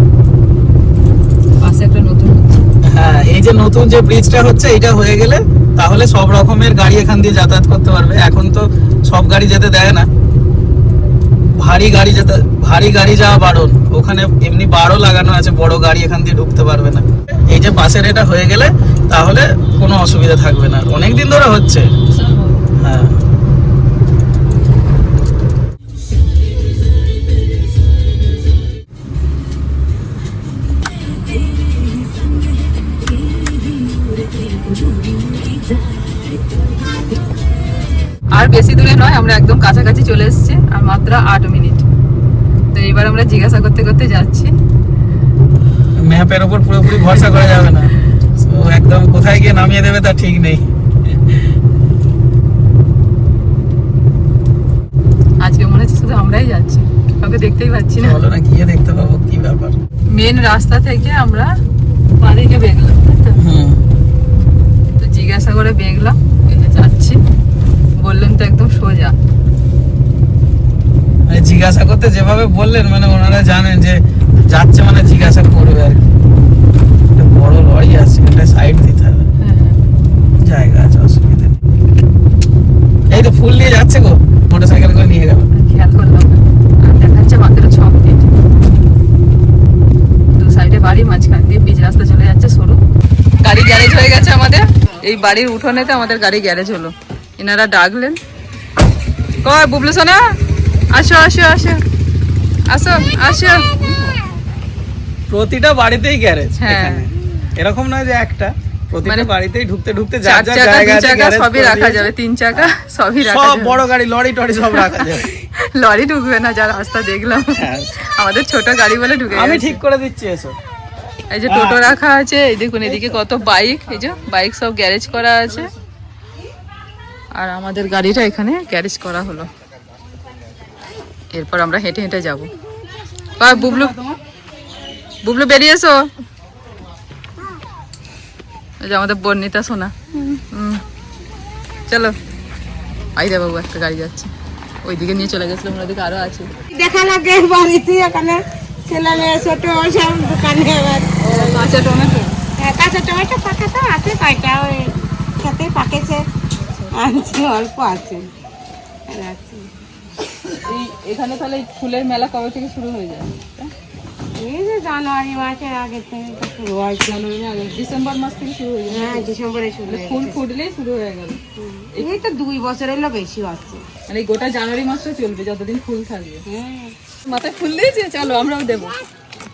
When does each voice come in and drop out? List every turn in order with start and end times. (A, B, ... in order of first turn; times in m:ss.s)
0:01.6-0:02.7 A
0:02.9-0:10.1 B
0:11.5-0:21.9 B
0:22.1-0:22.6 A
0:22.8-0:23.2 B
0:38.3-0:41.9 A
0:42.7-0:44.5 A
0:46.0-0:50.7 B
0:55.4-0:58.2 A
0:58.0-0:59.8 B
1:00.1-1:01.5 A
1:02.2-1:03.4 A
1:03.4-1:03.8 B
1:05.0-1:07.2 A
1:08.0-1:09.2 A
1:11.3-1:16.0 B
1:17.2-1:19.3 B
1:19.4-1:19.8 A
1:20.4-1:21.6 B
1:23.1-1:25.5 B
1:25.5-1:28.3 A
1:30.4-1:32.8 A
1:33.4-1:38.2 A
1:39.4-1:40.3 A
1:40.9-1:41.8 A
1:42.7-1:43.7 A
1:45.3-1:55.3 B
1:46.6-1:47.1 A
1:49.0-1:49.3 A
1:50.2-1:53.8 A
1:54.7-1:55.0 A
1:55.6-1:59.8 A
1:57.6-1:57.9 B
1:59.3-2:00.6 B
2:01.3-2:05.7 A
2:01.5-2:01.8 B
2:07.4-2:09.5 A
2:11.3-2:12.5 A
2:13.4-2:14.0 A
2:15.2-2:16.1 A
2:18.8-2:20.8 A
2:21.9-2:22.2 A
2:23.2-2:24.3 A
2:24.8-2:26.5 A
2:26.7-2:31.7 C
2:31.2-2:32.4 A
2:32.6-2:36.2 C
2:36.9-2:38.3 C
2:39.1-2:39.7 C
2:40.7-2:43.7 A
2:44.4-2:47.2 C
2:47.0-2:49.3 A
2:48.9-2:50.4 C
2:49.9-2:51.4 A
2:51.6-2:53.8 C
2:54.1-2:56.4 A
2:56.5-2:56.9 C
2:57.2-2:59.0 A